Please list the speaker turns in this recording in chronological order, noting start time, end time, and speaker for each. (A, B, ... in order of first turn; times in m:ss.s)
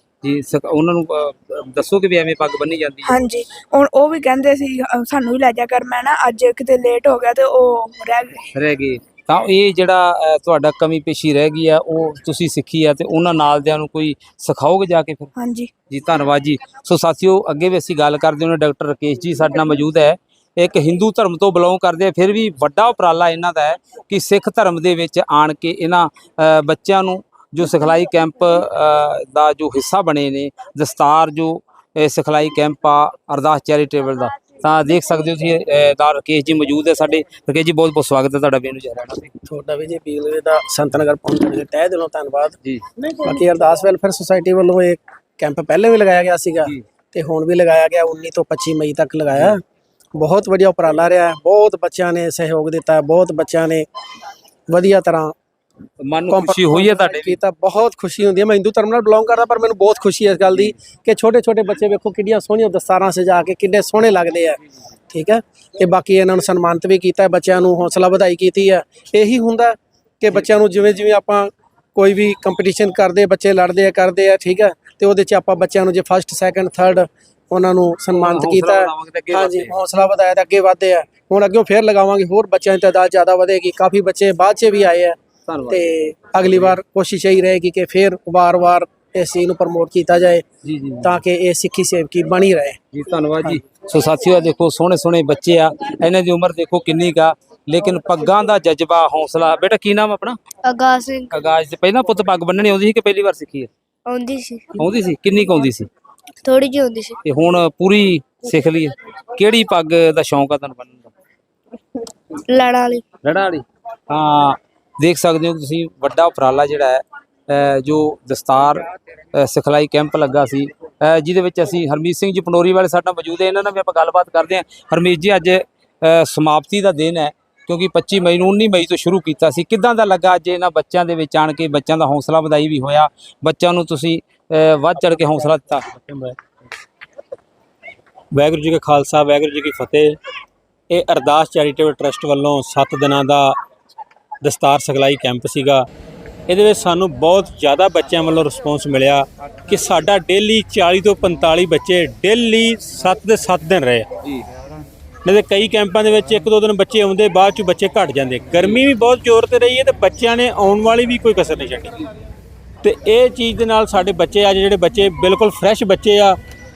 0:00.2-0:03.2 A
0:03.0-0:08.4 B
0:08.5-0:15.3 A
0:15.4-0:15.7 B
0:15.9-0:39.3 A
0:39.4-0:42.5 C
0:43.2-0:49.6 C
0:50.1-0:53.9 C
0:54.7-0:55.3 C
0:56.0-0:57.4 A
0:56.3-1:04.6 C
1:05.1-1:30.4 C
1:18.1-1:19.7 A
1:25.4-1:25.9 A
1:30.6-1:31.2 A
1:31.0-1:32.8 C
1:32.9-1:40.4 A
1:40.6-1:41.3 D
1:41.3-1:43.7 A
1:44.0-1:44.8 D
1:44.8-1:45.9 A
1:46.4-1:47.2 D
1:47.2-1:51.1 A
1:52.5-1:53.0 D
1:53.2-2:15.8 A
2:15.0-2:16.4 E
2:18.3-2:20.2 E
2:20.9-2:23.5 E
2:24.4-2:25.8 E
2:26.5-2:34.0 E
2:35.2-2:42.0 E
2:42.8-2:46.4 E